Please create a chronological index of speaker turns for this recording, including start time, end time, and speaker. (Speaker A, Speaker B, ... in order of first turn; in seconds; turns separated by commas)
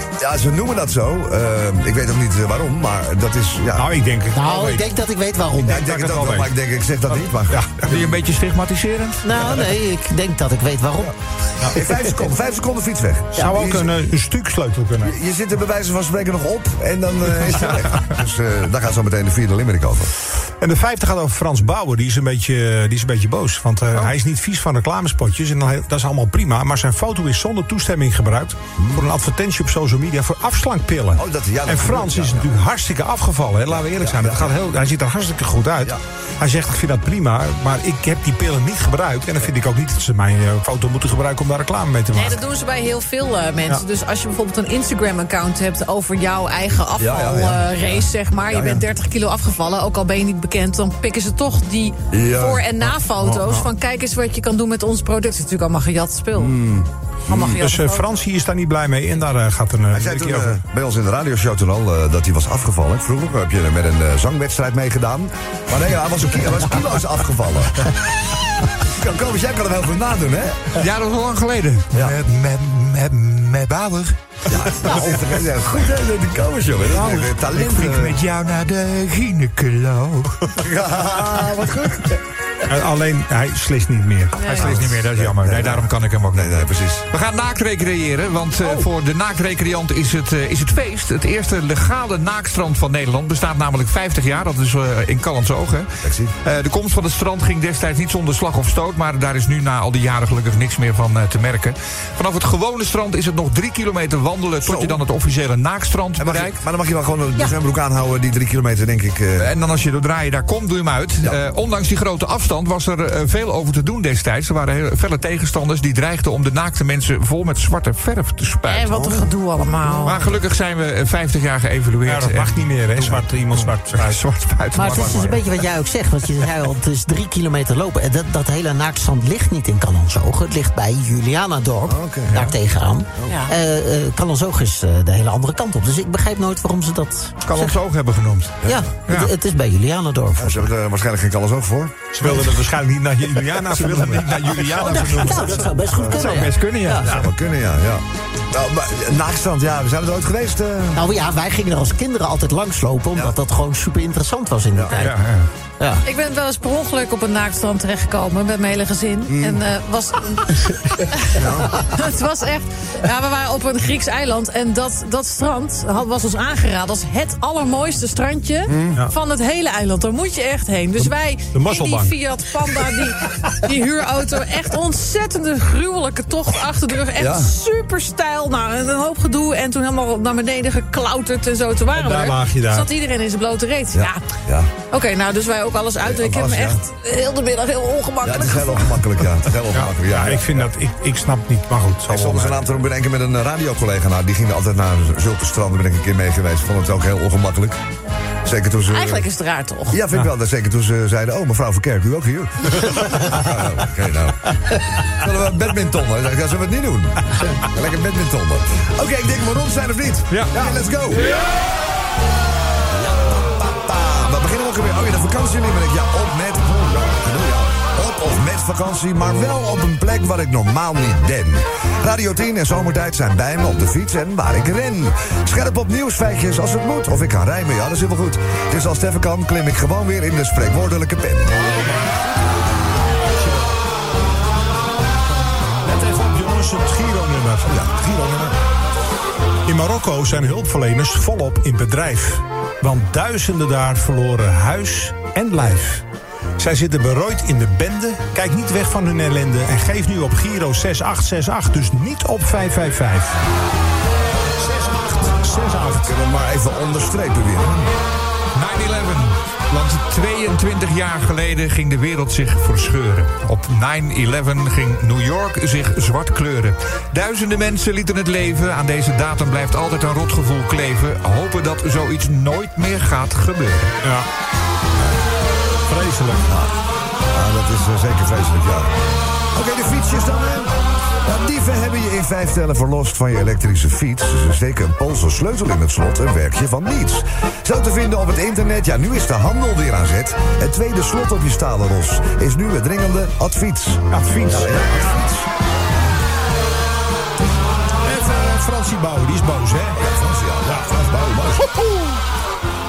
Speaker A: 0.2-3.9, Speaker B: 3.7-4.9, Speaker C: 4.3-5.8, Speaker A: 5.6-7.7, Speaker B: 5.7-6.5, Speaker B: 7.5-7.8, Speaker D: 7.8-9.3, Speaker C: 9.2-11.1, Speaker A: 11.7-13.9, Speaker B: 13.3-15.1, Speaker A: 15.0-20.1, Speaker B: 20.6-42.4, Speaker A: 28.8-29.0, Speaker A: 31.1-32.5, Speaker A: 33.7-34.6, Speaker E: 42.1-56.6, Speaker A: 47.0-47.8, Speaker A: 48.5-48.8, Speaker A: 52.1-52.6, Speaker B: 53.1-53.7, Speaker A: 56.3-57.6, Speaker E: 57.3-58.1, Speaker B: 57.6-60.6, Speaker A: 59.9-67.9, Speaker A: 68.7-70.7, Speaker D: 70.7-74.2, Speaker A: 74.5-78.2, Speaker D: 77.5-80.5, Speaker A: 80.5-82.2, Speaker B: 82.7-84.6, Speaker E: 84.4-84.6, Speaker D: 84.4-106.6, Speaker A: 84.5-87.0, Speaker A: 96.0-96.3, Speaker A: 104.6-105.0, Speaker A: 106.2-109.5, Speaker D: 109.4-119.0, Speaker E: 118.6-120.3, Speaker A: 118.9-119.2, Speaker D: 120.0-125.4, Speaker B: 122.0-124.2, Speaker C: 124.7-137.8, Speaker B: 124.8-125.4, Speaker A: 131.8-132.5, Speaker E: 133.2-133.5, Speaker D: 137.4-139.3, Speaker C: 138.6-140.7, Speaker A: 140.4-142.1, Speaker B: 142.1-147.2, Speaker D: 143.7-145.6, Speaker C: 144.8-147.1, Speaker A: 145.9-146.3, Speaker D: 146.1-147.1, Speaker A: 147.0-151.0, Speaker C: 150.9-155.2, Speaker A: 154.7-155.1, Speaker D: 155.0-155.5, Speaker E: 156.0-184.2, Speaker A: 159.3-159.6, Speaker A: 161.3-161.8, Speaker A: 168.7-169.0, Speaker B: 171.0-172.1, Speaker B: 172.7-173.0, Speaker A: 177.1-177.5, Speaker B: 181.9-182.9, Speaker A: 183.9-184.7, Speaker E: 184.9-189.0, Speaker A: 186.0-186.8, Speaker A: 188.2-190.7, Speaker B: 189.7-192.6, Speaker A: 192.1-197.8, Speaker A: 198.4-199.3, Speaker E: 198.9-200.0, Speaker A: 199.9-211.4, Speaker A: 212.7-231.6, Speaker B: 231.8-232.2, Speaker B: 233.2-233.8, Speaker B: 235.8-238.5, Speaker A: 237.7-238.3, Speaker B: 239.7-246.0, Speaker B: 246.6-253.4, Speaker B: 254.6-256.1, Speaker A: 255.9-257.9, Speaker D: 258.5-273.9, Speaker B: 274.0-274.3, Speaker B: 275.9-276.5, Speaker A: 276.4-276.8, Speaker A: 277.3-278.9, Speaker A: 279.5-295.5, Speaker B: 294.1-295.2, Speaker B: 298.0-300.0, Speaker A: 299.9-301.6, Speaker B: 301.5-302.2